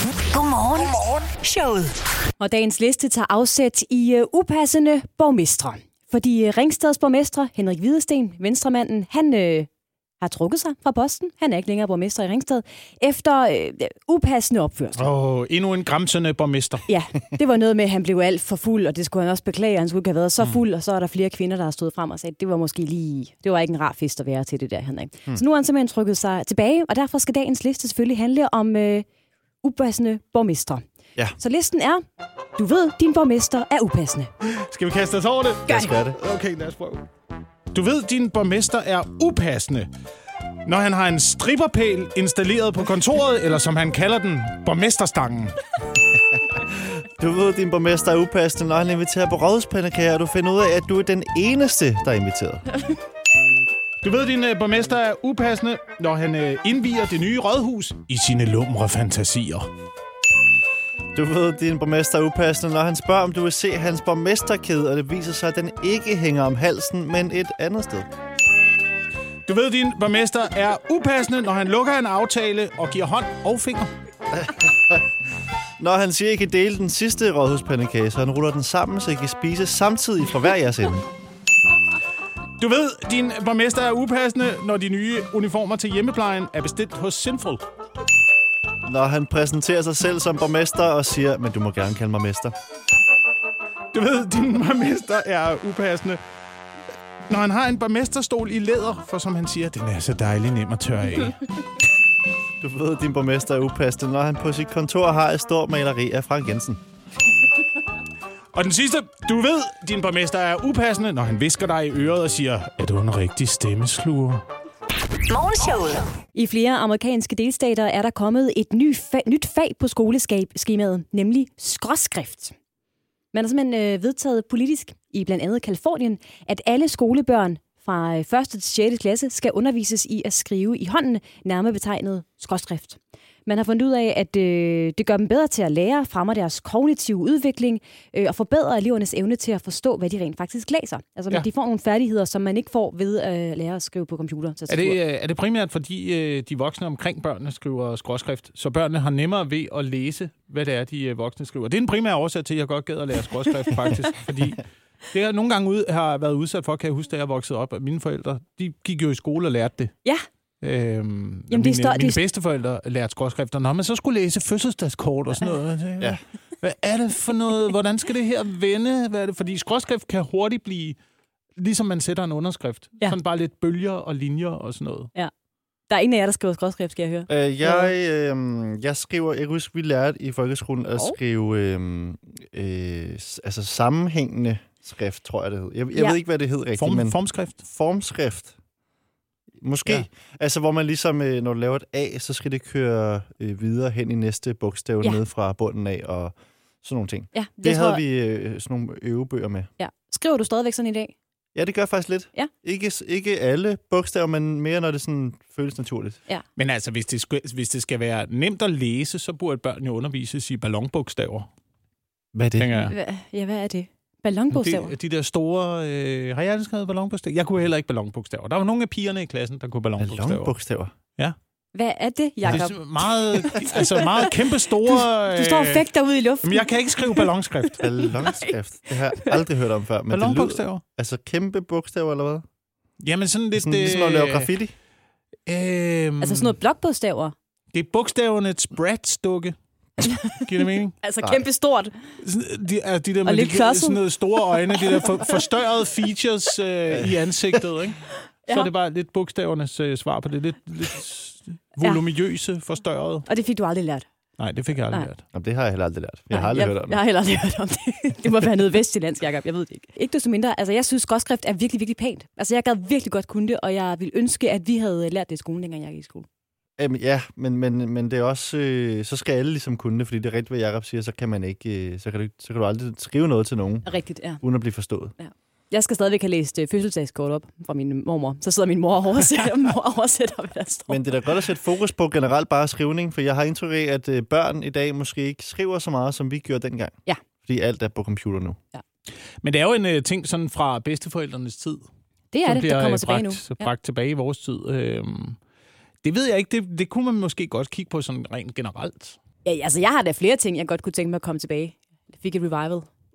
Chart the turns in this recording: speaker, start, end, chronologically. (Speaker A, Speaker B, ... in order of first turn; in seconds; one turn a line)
Speaker A: 0.3-2.0
Speaker B: 2.4-9.7
Speaker B: 10.2-15.1
Speaker C: 15.0-16.9
Speaker B: 16.9-29.1
Speaker B: 29.6-30.8
Speaker B: 31.4-32.0
Speaker B: 32.5-34.3
Speaker C: 34.4-37.0
Speaker D: 35.7-36.2
Speaker C: 37.7-39.9
Speaker C: 40.6-45.6
Speaker D: 46.5-52.7
Speaker C: 54.0-59.7
Speaker D: 61.1-68.1
Speaker C: 69.5-73.9
Speaker D: 74.3-75.0
Speaker D: 75.8-81.0
Speaker C: 82.6-87.6
Speaker D: 88.8-92.5
Speaker C: 93.9-96.2
Speaker C: 97.3-101.4
Speaker D: 102.6-106.8
Speaker C: 108.5-114.4
Speaker A: 115.3-116.1
Speaker B: 116.3-122.5
Speaker B: 123.3-145.0
Speaker C: 144.7-159.9
Speaker C: 160.6-171.0
Speaker B: 161.5-162.2
Speaker C: 171.6-175.1
Speaker B: 175.9-177.9
Speaker D: 177.3-188.5
Speaker C: 186.8-187.6
Speaker D: 189.6-199.7
Speaker B: 197.3-198.0
Speaker B: 199.8-201.1
Speaker D: 201.5-206.2
Speaker C: 206.6-211.5
Speaker D: 212.3-212.7
Speaker C: 212.6-212.9
Speaker B: 212.8-214.9
Speaker C: 214.5-220.5
Speaker D: 220.0-220.9
Speaker B: 221.7-228.5
Speaker C: 222.4-225.9
Speaker C: 226.4-227.9
Speaker D: 227.8-232.4
Speaker B: 229.1-229.4
Speaker C: 230.1-230.8
Speaker C: 233.0-234.5
Speaker D: 233.5-234.7
Speaker C: 235.4-236.6
Speaker B: 236.2-237.3
Speaker C: 237.7-240.9
Speaker B: 240.0-240.5
Speaker B: 241.0-241.9
Speaker C: 242.2-253.2
Speaker B: 243.2-245.3
Speaker B: 253.2-254.1
Speaker C: 254.4-255.2
Speaker D: 255.3-257.0
Speaker B: 256.3-266.3
Speaker D: 266.8-273.9
Speaker B: 273.9-274.4
Speaker D: 274.4-275.1
Speaker B: 275.2-281.1
Speaker D: 280.9-288.6
Speaker C: 289.4-291.9
Speaker B: 292.3-293.7
Speaker C: 292.4-295.4
Speaker C: 296.0-299.2
Speaker B: 299.4-302.9